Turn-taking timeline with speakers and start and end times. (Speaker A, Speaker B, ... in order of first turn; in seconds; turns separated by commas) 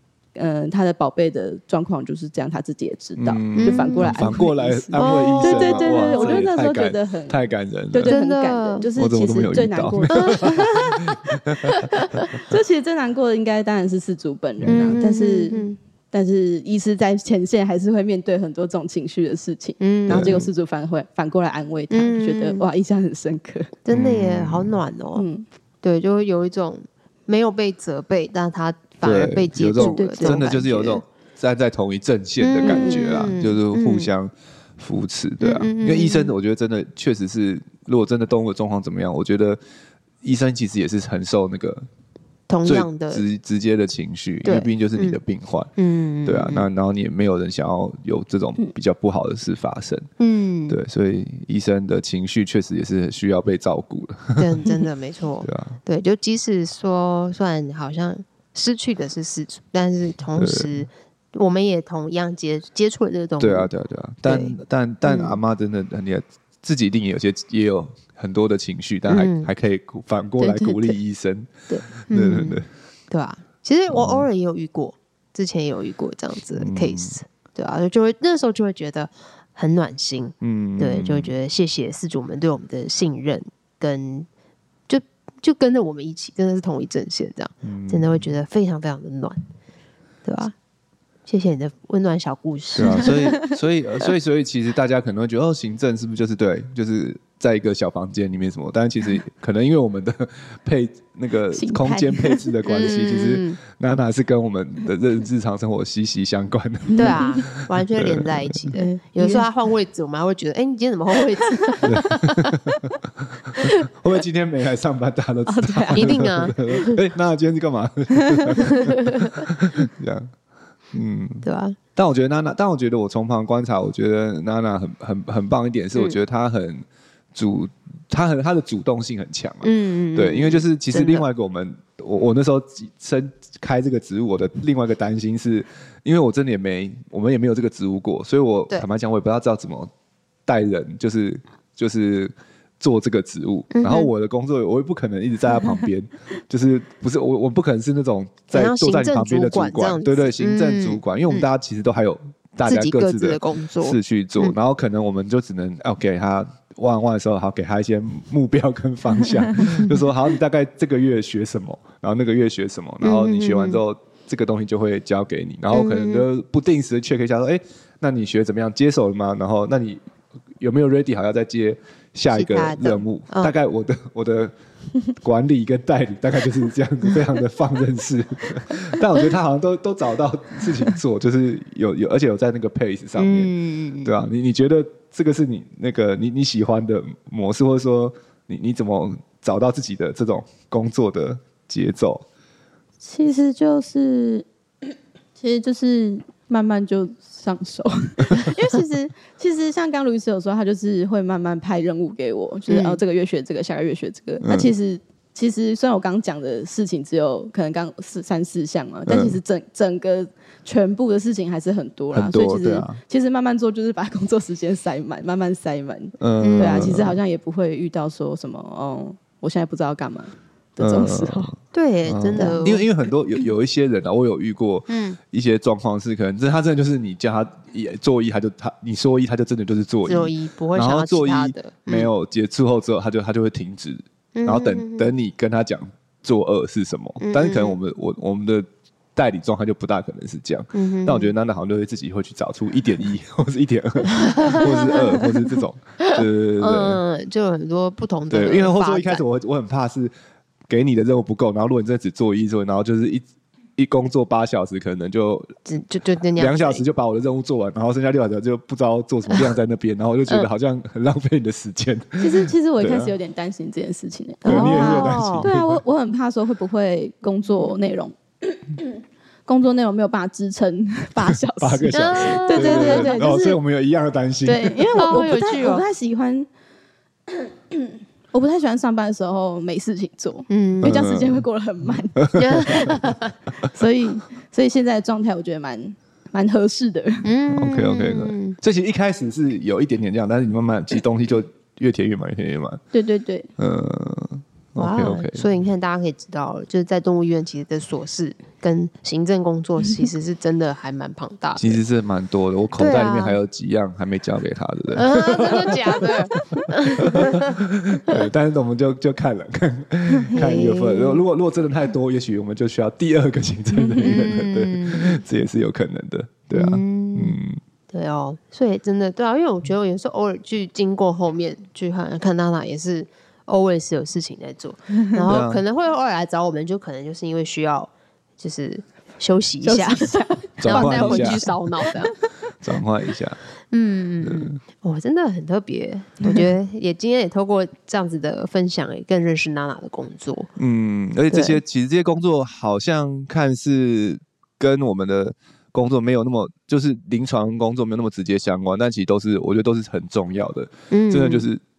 Speaker A: 0.4-11.1, Speaker B: 3.2-8.2, Speaker C: 3.6-4.2, Speaker C: 5.0-6.5, Speaker C: 8.1-8.9, Speaker B: 9.0-11.8, Speaker C: 10.1-10.5, Speaker A: 12.5-23.7, Speaker B: 14.6-15.0, Speaker C: 14.7-15.8, Speaker C: 19.8-20.4, Speaker B: 20.1-20.5, Speaker C: 21.9-22.6, Speaker C: 23.9-25.2, Speaker B: 23.9-24.8, Speaker A: 25.1-25.5, Speaker C: 25.8-31.0, Speaker B: 29.0-39.6, Speaker A: 29.8-30.6, Speaker C: 32.4-34.1, Speaker A: 32.6-33.2, Speaker C: 35.4-36.3, Speaker B: 40.2-41.9, Speaker C: 42.5-43.2, Speaker B: 42.6-45.7, Speaker C: 44.5-45.2, Speaker C: 45.8-46.7, Speaker B: 46.3-50.1, Speaker C: 50.2-50.8, Speaker B: 50.7-54.7, Speaker C: 54.4-63.7, Speaker B: 55.4-55.8, Speaker B: 60.4-60.8, Speaker B: 63.4-72.7, Speaker C: 64.2-65.4, Speaker C: 69.1-69.5, Speaker A: 70.4-71.0, Speaker C: 71.7-84.3, Speaker B: 73.9-74.3, Speaker B: 76.6-77.2, Speaker B: 80.4-81.3, Speaker C: 84.9-89.4, Speaker B: 87.6-88.3, Speaker C: 90.2-90.5, Speaker C: 91.3-93.3, Speaker B: 92.8-108.7, Speaker A: 92.9-93.5, Speaker A: 101.5-102.5, Speaker C: 102.6-103.6, Speaker A: 106.9-107.4, Speaker C: 107.0-112.6, Speaker A: 108.7-109.5, Speaker B: 111.8-112.7, Speaker B: 113.5-120.3, Speaker A: 115.5-116.5, Speaker C: 115.9-117.0, Speaker A: 118.2-118.7, Speaker C: 118.7-119.5, Speaker B: 120.9-121.5, Speaker C: 121.4-121.8, Speaker B: 122.0-139.9, Speaker C: 129.6-131.2, Speaker B: 140.5-170.0, Speaker C: 143.7-144.1, Speaker C: 148.5-151.5, Speaker C: 152.7-154.6, Speaker C: 159.6-160.0, Speaker C: 163.0-163.8, Speaker C: 165.7-166.3, Speaker B: 170.6-174.5, Speaker C: 172.3-173.5, Speaker B: 175.2-183.5, Speaker C: 183.2-184.1, Speaker B: 184.0-192.2, Speaker A: 193.0-194.5, Speaker A: 195.4-221.5, Speaker C: 202.7-203.0, Speaker B: 204.4-204.7, Speaker B: 209.1-209.4, Speaker B: 212.2-213.0, Speaker B: 216.2-217.2, Speaker C: 216.4-217.1, Speaker B: 220.8-221.6, Speaker C: 221.7-222.8, Speaker B: 222.1-247.0, Speaker A: 222.4-222.8, Speaker C: 224.9-225.2, Speaker C: 230.1-232.1, Speaker C: 234.3-235.1, Speaker C: 237.2-237.8, Speaker C: 240.7-241.3, Speaker C: 244.2-245.3, Speaker C: 246.1-249.2, Speaker B: 248.3-250.1, Speaker B: 250.7-253.2, Speaker B: 253.8-255.5, Speaker C: 255.7-256.8, Speaker B: 256.4-263.1, Speaker A: 262.2-273.6, Speaker C: 264.4-265.5, Speaker B: 264.4-265.8, Speaker B: 271.4-275.2, Speaker C: 271.9-273.2, Speaker A: 274.4-276.5, Speaker C: 274.9-275.9, Speaker A: 277.3-283.0, Speaker C: 280.5-281.1, Speaker B: 280.8-281.4, Speaker B: 282.2-282.9, Speaker C: 282.4-283.3, Speaker A: 283.6-287.3, Speaker C: 287.2-288.6, Speaker B: 287.5-292.8, Speaker A: 292.9-293.5, Speaker B: 293.6-295.5, Speaker C: 294.8-301.8, Speaker B: 301.6-317.6, Speaker C: 302.8-303.4, Speaker C: 304.9-308.2, Speaker C: 310.3-311.2, Speaker A: 313.8-314.2, Speaker C: 314.0-315.2, Speaker C: 316.5-317.4, Speaker C: 317.9-332.1, Speaker B: 325.3-325.6, Speaker A: 329.6-332.2, Speaker B: 330.6-331.4, Speaker B: 332.6-333.4, Speaker C: 333.7-340.5, Speaker B: 334.2-334.6, Speaker B: 340.6-351.6, Speaker C: 341.3-341.6, Speaker C: 350.9-351.5